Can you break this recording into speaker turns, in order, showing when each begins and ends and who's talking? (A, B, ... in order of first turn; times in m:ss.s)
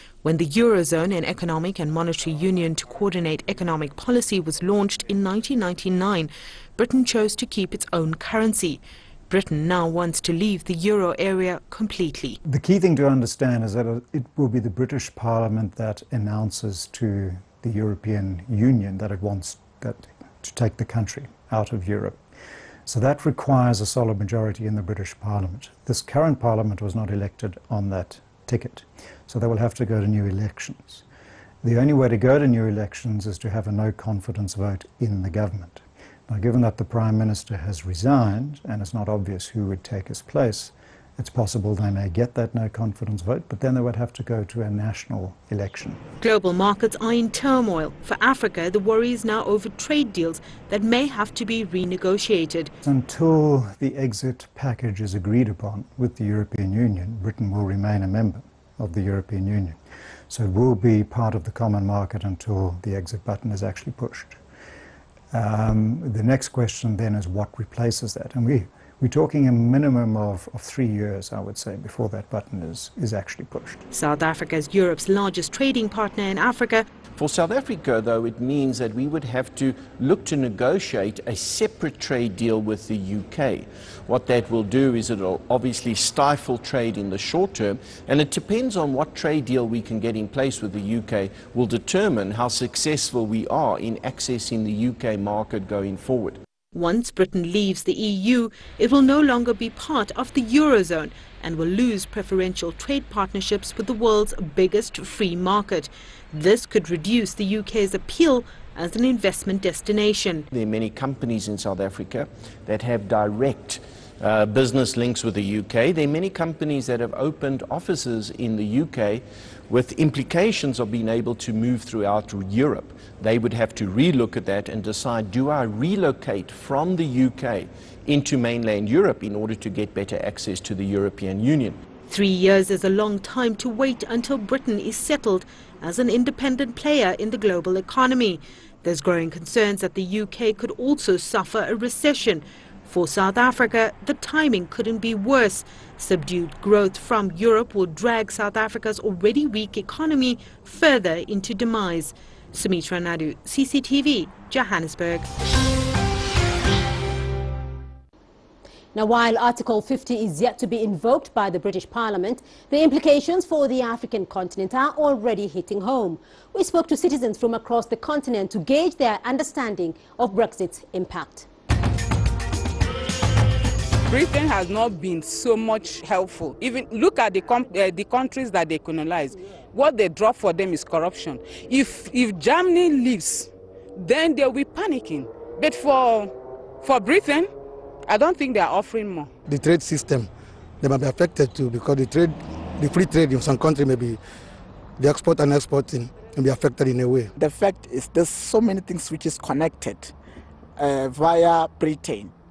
0:00.2-0:12.4 A
0:12.4-0:22.2 B
0:22.9-0:31.0 B
0:31.6-0:46.0 B
0:46.2-0:52.7 A
0:52.8-1:04.4 B
1:05.3-1:13.8 B
1:13.9-1:16.9 A
1:17.2-1:36.4 C
1:36.7-1:50.5 A
1:50.5-2:11.8 C
2:12.1-2:35.3 A
2:39.0-2:51.5 D
2:54.1-3:07.5 E
3:08.1-3:09.3 E
3:09.5-3:10.3 F
3:10.8-3:14.2 F
3:15.0-3:17.3 F
3:17.4-3:20.1 G
3:20.8-3:22.3 G